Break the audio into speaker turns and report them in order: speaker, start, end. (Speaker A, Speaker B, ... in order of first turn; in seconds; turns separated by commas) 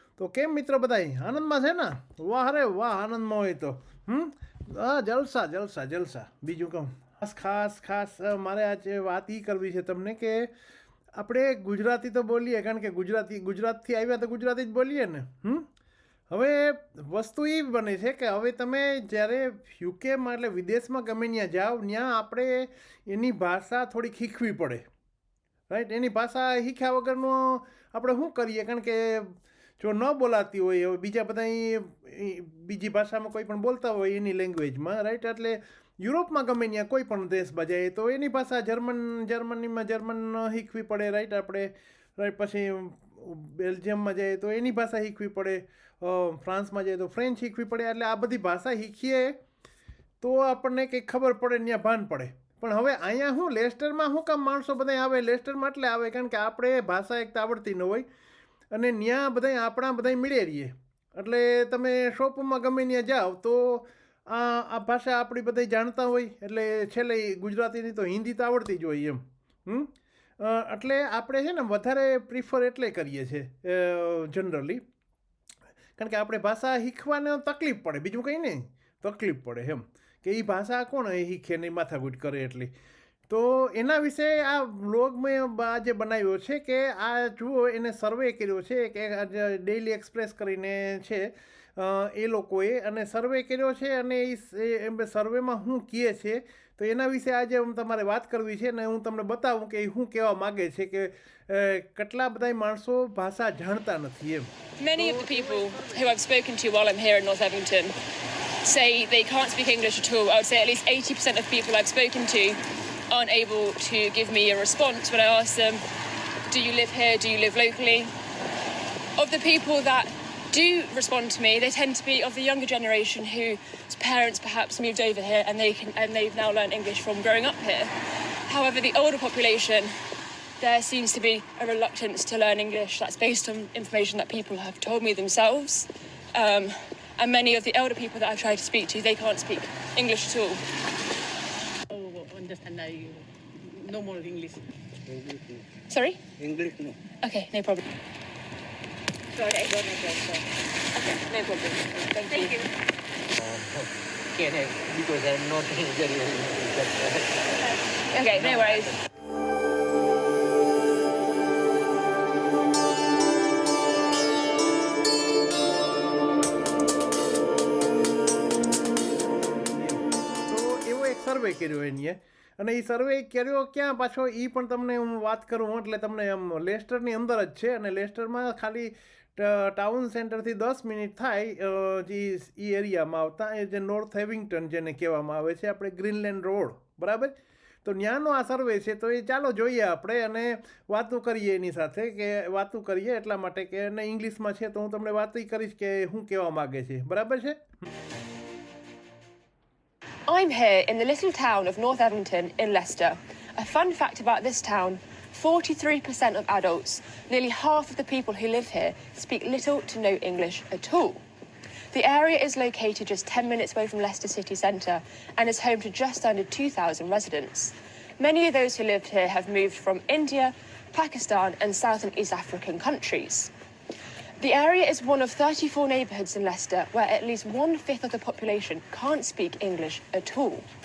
Speaker A: 0.2-10.5, Speaker A: 11.1-15.7, Speaker A: 16.3-24.8, Speaker A: 25.7-49.4, Speaker A: 50.2-58.0, Speaker A: 58.7-74.8, Speaker A: 76.0-82.7, Speaker A: 83.3-106.1, Speaker B: 104.8-108.0, Speaker B: 108.6-115.8, Speaker B: 116.5-118.1, Speaker B: 119.2-127.9, Speaker B: 128.5-129.9, Speaker B: 130.6-140.6, Speaker C: 141.9-144.6, Speaker D: 145.1-145.6, Speaker B: 145.9-146.2, Speaker D: 146.4-146.9, Speaker B: 147.2-147.8, Speaker B: 149.4-150.2, Speaker B: 150.9-152.7, Speaker D: 153.4-157.3, Speaker B: 158.1-158.9, Speaker D: 158.3-158.8, Speaker A: 169.6-197.6, Speaker B: 200.3-211.2, Speaker B: 211.9-223.5, Speaker B: 224.4-230.6